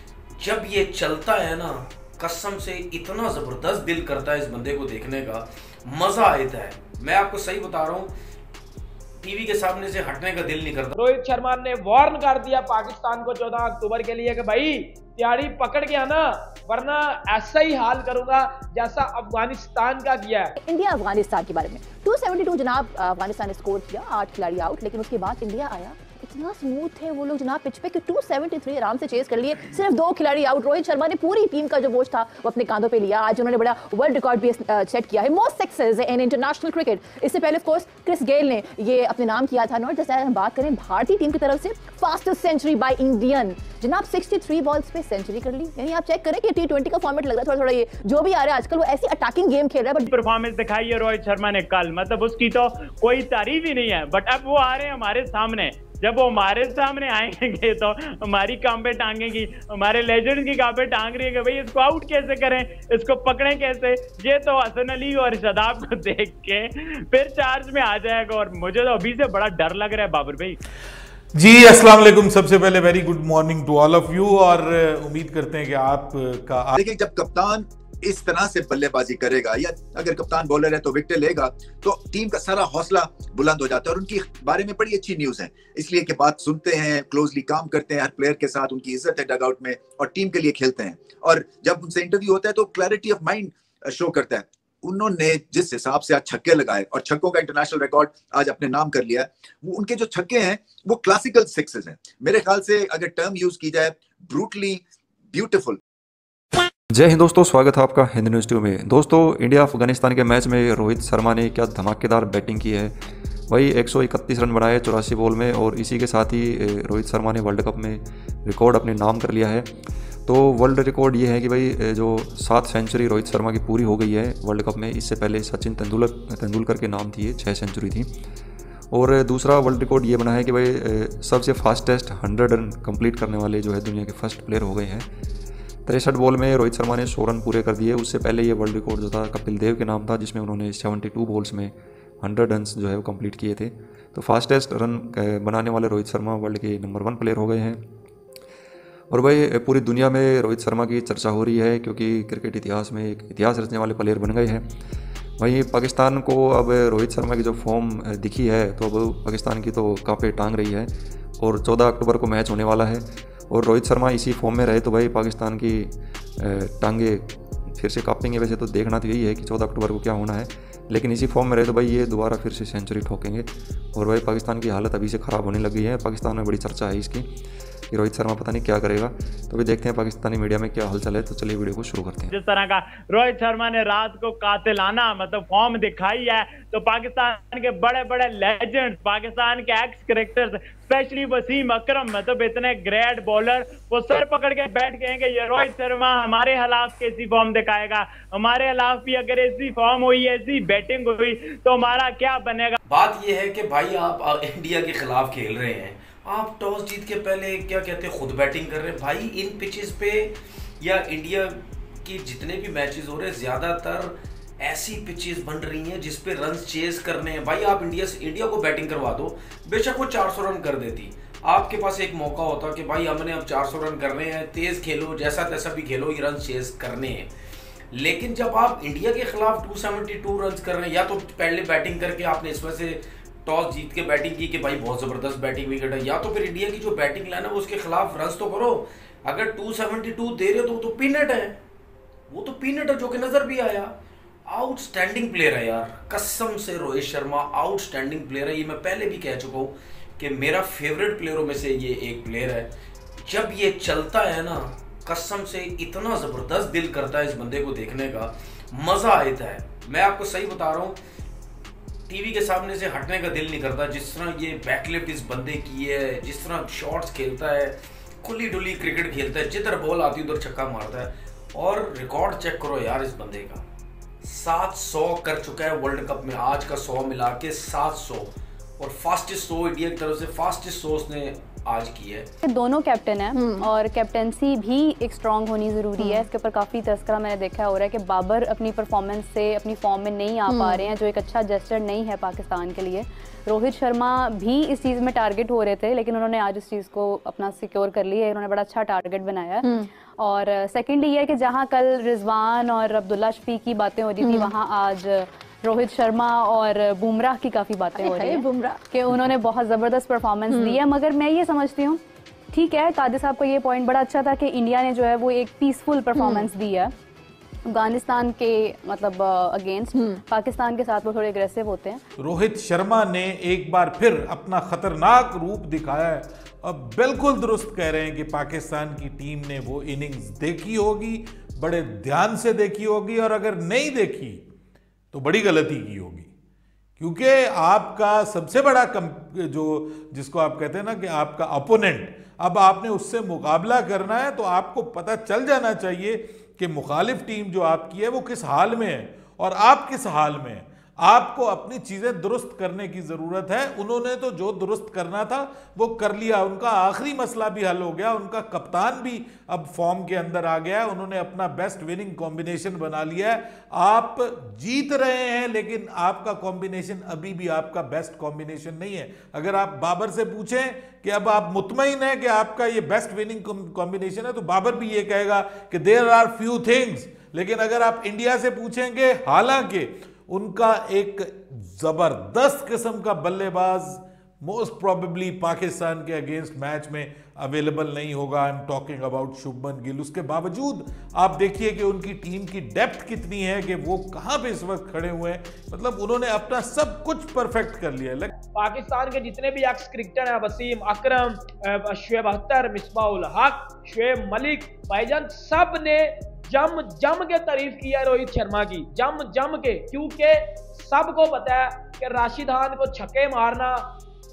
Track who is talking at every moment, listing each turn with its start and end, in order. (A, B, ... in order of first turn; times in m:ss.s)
0:00.4-0:08.1 A
0:09.2-0:11.0 A
0:11.0-0:20.5 B
0:20.6-0:50.1 C
0:50.0-1:10.6 D
1:11.3-1:16.7 E
1:16.8-1:45.8 F
1:46.9-1:52.9 G
1:53.5-1:59.7 G
2:00.2-2:08.1 G
2:08.9-2:15.0 G
2:15.8-2:27.8 G
2:29.1-2:34.7 G
2:35.4-2:57.3 G
2:57.9-3:02.3 G
3:02.3-3:22.8 D
3:22.9-3:47.3 A
3:47.9-4:01.6 A
4:02.3-4:03.9 A
4:04.5-4:12.7 A
4:13.2-4:21.0 A
4:22.1-4:33.6 A
4:34.2-4:42.3 A
4:42.4-4:59.6 H
4:43.3-4:43.7 C
4:46.0-4:46.2 C
4:50.5-4:50.9 C
4:59.6-4:59.9 C
5:00.2-5:12.0 H
5:04.2-5:04.5 C
5:07.9-5:09.4 C
5:10.5-5:10.8 C
5:12.5-5:16.9 H
5:16.1-5:16.5 C
5:17.7-5:22.0 H
5:19.9-5:20.2 C
5:22.2-5:34.4 E
5:35.1-5:36.3 E
5:37.0-6:38.3 E
6:38.5-6:53.9 B